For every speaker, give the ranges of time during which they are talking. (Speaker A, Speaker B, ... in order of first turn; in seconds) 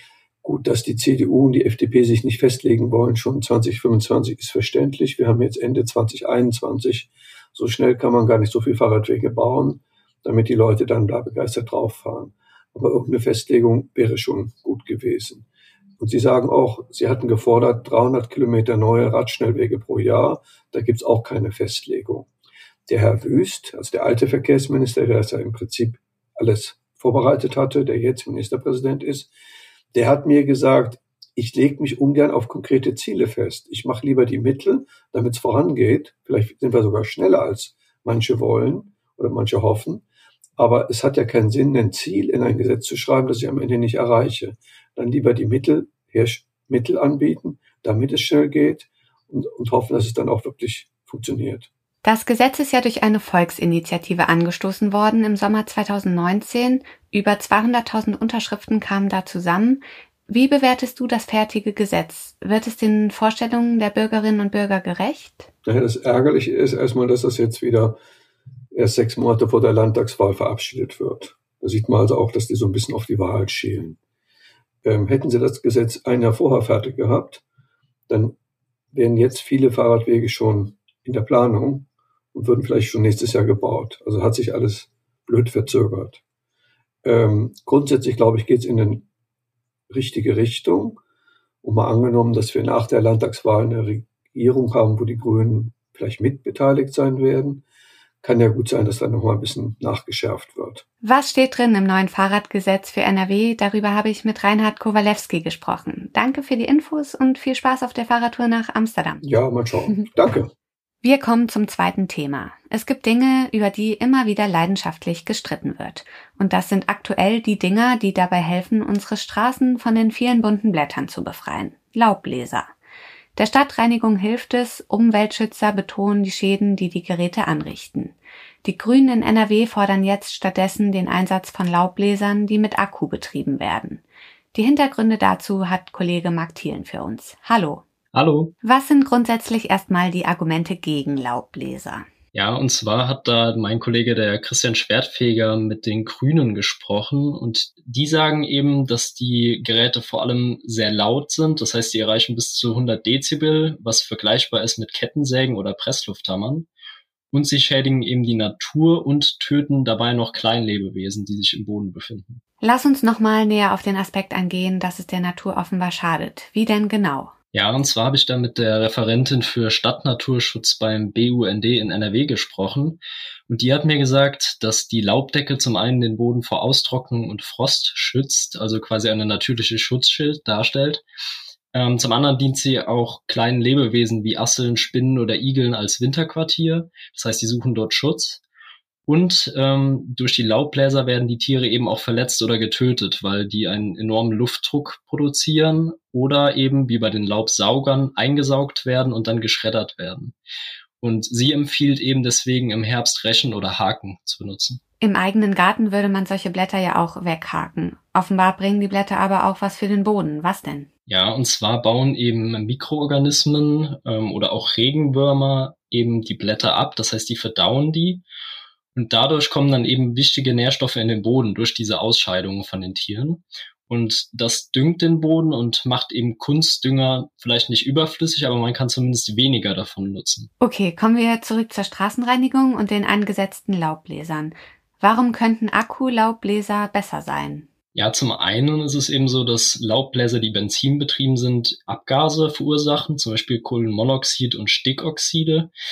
Speaker A: 0.4-15.4, 16.0-22.3, 22.9-29.3, 29.9-40.0, 40.6-51.7, 65.6-68.0, 68.7-74.0, 74.8-77.4, 78.1-78.3, 78.9-86.2, 87.0-89.1, 89.9-91.0, 91.6-97.6, 98.2-100.8, 109.2-110.5
Speaker B: 52.0-65.5, 101.0-109.2, 111.0-122.7, 123.3-134.0, 134.5-137.8, 138.6-142.1, 162.6-167.3, 205.0-210.9, 230.6-237.7
Speaker C: 138.1-138.5, 142.3-156.7, 157.3-162.4, 167.5-181.0, 181.7-188.4, 189.1-200.3, 201.0-204.8, 211.1-218.2, 218.9-230.5, 237.9-245.7